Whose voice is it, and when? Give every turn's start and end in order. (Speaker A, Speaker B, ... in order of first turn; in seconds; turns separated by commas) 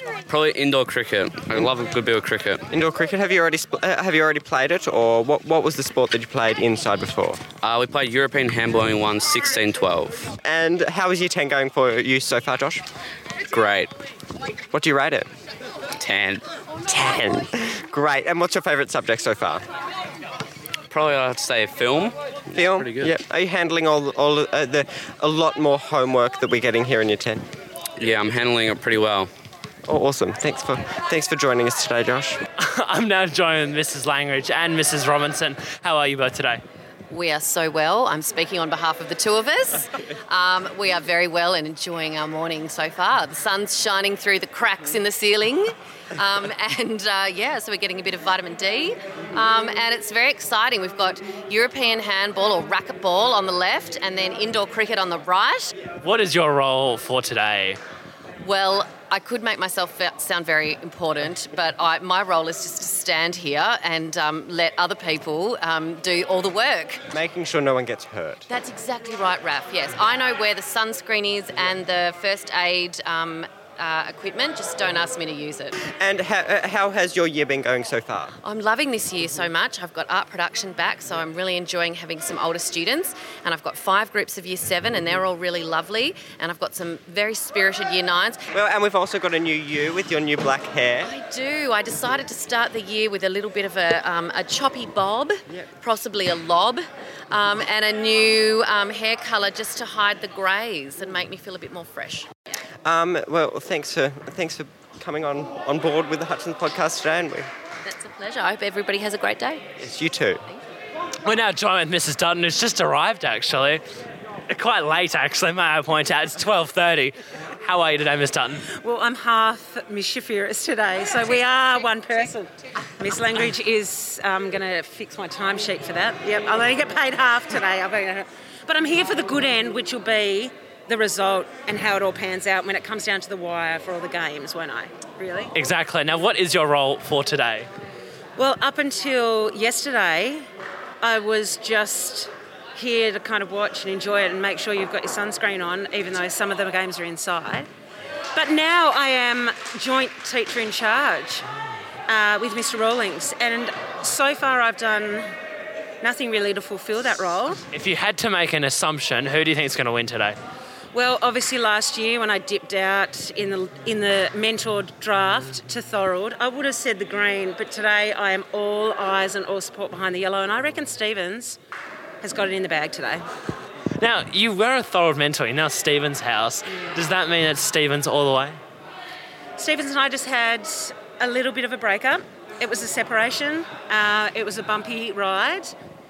Speaker A: 0.3-2.6, Speaker B: 2.7-7.5, Speaker A: 7.6-10.3, Speaker B: 10.4-12.8, Speaker A: 13.5-13.9, Speaker B: 14.7-15.3, Speaker A: 16.0-16.4, Speaker B: 16.9-19.6, Speaker A: 20.9-23.1, Speaker B: 22.5-27.4, Speaker A: 28.0-29.3, Speaker B: 29.9-32.4, Speaker C: 32.6-36.6, Speaker D: 37.1-55.8, Speaker C: 56.0-57.8, Speaker D: 58.4-67.0, Speaker B: 67.1-68.5, Speaker D: 68.5-75.8, Speaker B: 75.9-78.3, Speaker D: 78.4-88.4, Speaker B: 88.5-91.1, Speaker D: 91.0-96.8, Speaker D: 97.3-102.3, Speaker B: 102.8-107.5, Speaker D: 107.8-109.7, Speaker B: 109.8-110.4, Speaker C: 111.2-113.8, Speaker C: 114.5-118.7, Speaker E: 118.8-135.5, Speaker C: 135.5-137.7, Speaker E: 138.4-140.4, Speaker E: 141.0-147.7, Speaker E: 148.4-151.4, Speaker E: 152.1-155.3, Speaker E: 156.0-157.6, Speaker C: 157.7-160.4, Speaker E: 160.9-171.6, Speaker E: 172.2-173.2, Speaker C: 174.0-178.6, Speaker E: 179.6-185.7